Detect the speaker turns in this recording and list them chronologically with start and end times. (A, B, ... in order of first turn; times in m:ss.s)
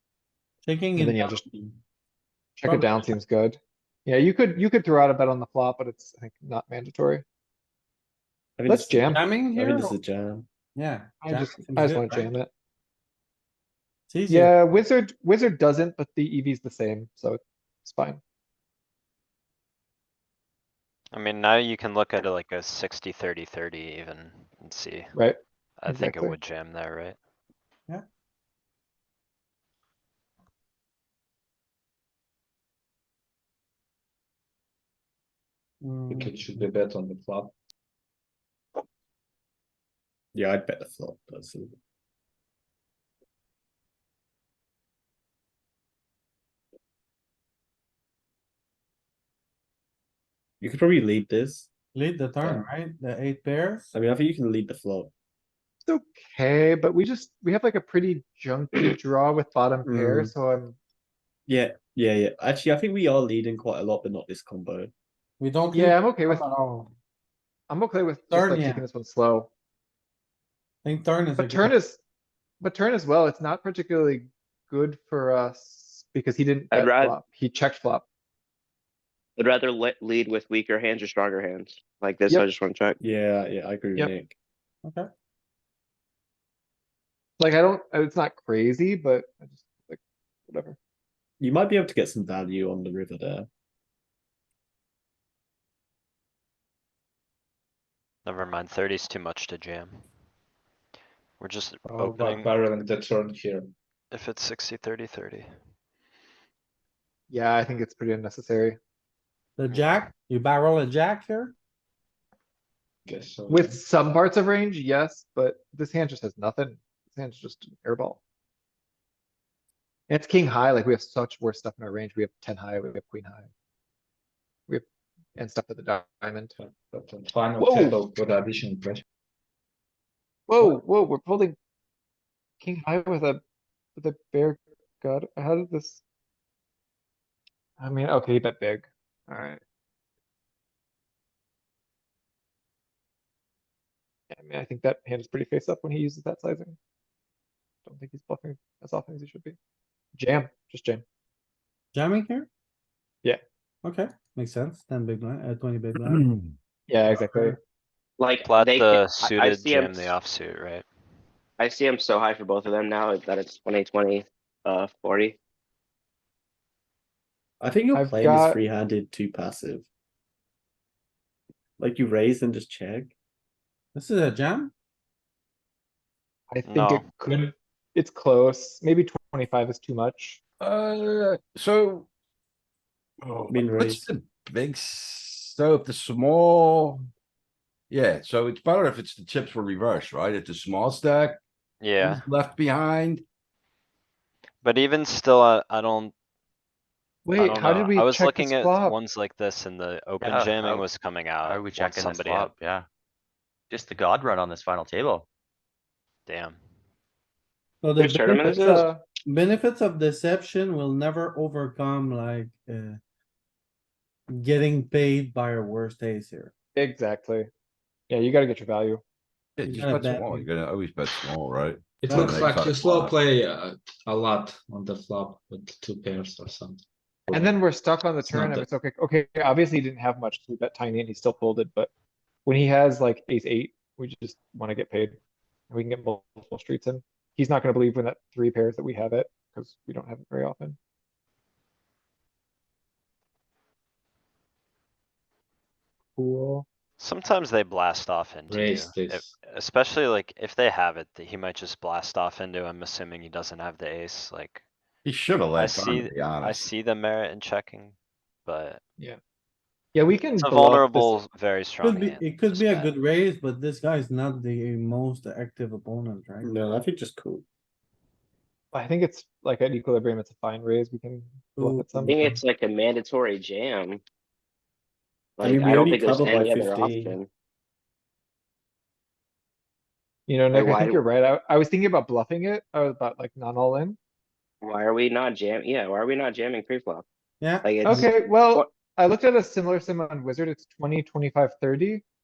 0:00.6-0:01.4 A
0:01.0-0:01.5 B
0:02.6-0:07.2 B
0:02.6-0:03.2 A
0:08.6-0:10.4 C
0:08.7-0:09.2 B
0:09.1-0:09.9 A
0:10.7-0:12.3 A
0:11.2-0:12.5 B
0:14.1-0:14.5 A
0:14.3-0:18.2 B
0:21.1-0:25.1 D
0:25.1-0:26.4 B
0:25.8-0:27.2 D
0:35.8-0:36.7 A
0:36.1-0:37.5 E
0:40.3-0:41.7 C
0:50.6-0:51.7 C
0:51.9-0:53.9 A
0:53.9-0:55.1 C
0:55.8-1:00.8 B
0:59.9-1:00.3 C
1:01.5-1:04.9 C
1:05.4-1:06.9 A
1:05.7-1:06.4 B
1:07.7-1:09.5 B
1:08.3-1:08.8 A
1:10.8-1:11.7 A
1:11.4-1:12.0 B
1:12.6-1:18.0 B
1:16.7-1:17.2 F
1:19.4-1:23.0 F
1:23.0-1:24.3 C
1:27.4-1:30.8 B
1:31.4-1:33.5 C
1:38.2-1:40.0 D
1:41.4-1:42.5 D
1:42.0-1:43.7 E
1:44.1-1:45.5 D
1:47.3-1:48.8 B
1:49.6-1:51.5 A
1:53.0-1:53.8 E
1:53.5-1:58.2 B
2:00.1-2:03.5 B
2:05.4-2:06.6 B
2:06.6-2:09.0 E
2:07.6-2:08.0 B
2:10.5-2:11.6 B
2:12.6-2:13.4 B
2:14.0-2:16.0 B
2:17.8-2:19.6 B
2:24.3-2:26.8 B
2:27.8-2:29.6 B
2:30.2-2:31.0 B
2:31.9-2:32.5 A
2:33.8-2:36.2 A
2:36.0-2:36.4 G
2:36.9-2:37.6 B
2:38.2-2:40.2 F
2:38.4-2:40.8 D
2:41.6-2:45.4 F
2:47.6-2:49.8 C
2:47.9-2:48.6 B
2:51.8-2:53.1 C
2:53.9-2:54.7 A
2:56.5-3:00.4 B
2:56.7-2:57.1 D
3:00.6-3:02.1 G
3:03.2-3:07.0 G
3:03.5-3:04.0 C
3:07.9-3:11.4 G
3:11.8-3:12.2 D
3:12.0-3:13.2 G
3:14.6-3:16.1 D
3:17.2-3:19.0 B
3:17.4-3:22.6 D
3:20.2-3:20.8 H
3:21.4-3:22.9 H
3:23.7-3:25.2 H
3:26.3-3:26.6 D
3:27.8-3:33.0 A
3:28.0-3:28.8 F
3:28.4-3:29.0 B
3:34.3-3:36.5 A
3:36.8-3:37.5 B
3:38.1-3:39.0 B
3:39.6-3:43.2 G
3:39.6-3:40.5 A
3:39.9-3:40.1 B
3:42.0-3:47.5 E
3:42.1-3:42.4 B
3:47.3-3:51.9 B
3:48.3-3:48.6 E
3:52.4-3:55.2 B
3:55.7-4:00.8 B
4:06.2-4:06.7 B
4:07.0-4:14.6 D
4:08.5-4:09.3 E
4:15.0-4:16.7 G
4:15.6-4:18.8 D
4:19.9-4:21.2 B
4:20.4-4:22.9 D
4:21.8-4:26.5 A
4:26.4-4:27.4 C
4:28.7-4:32.2 B
4:31.6-4:32.4 A
4:32.0-4:34.0 F
4:35.4-4:37.3 F
4:35.4-4:37.1 C
4:40.3-4:44.0 B
4:40.5-4:41.0 F
4:44.6-4:47.0 F
4:47.4-4:48.1 A
4:47.6-4:48.7 F
4:47.8-4:52.0 B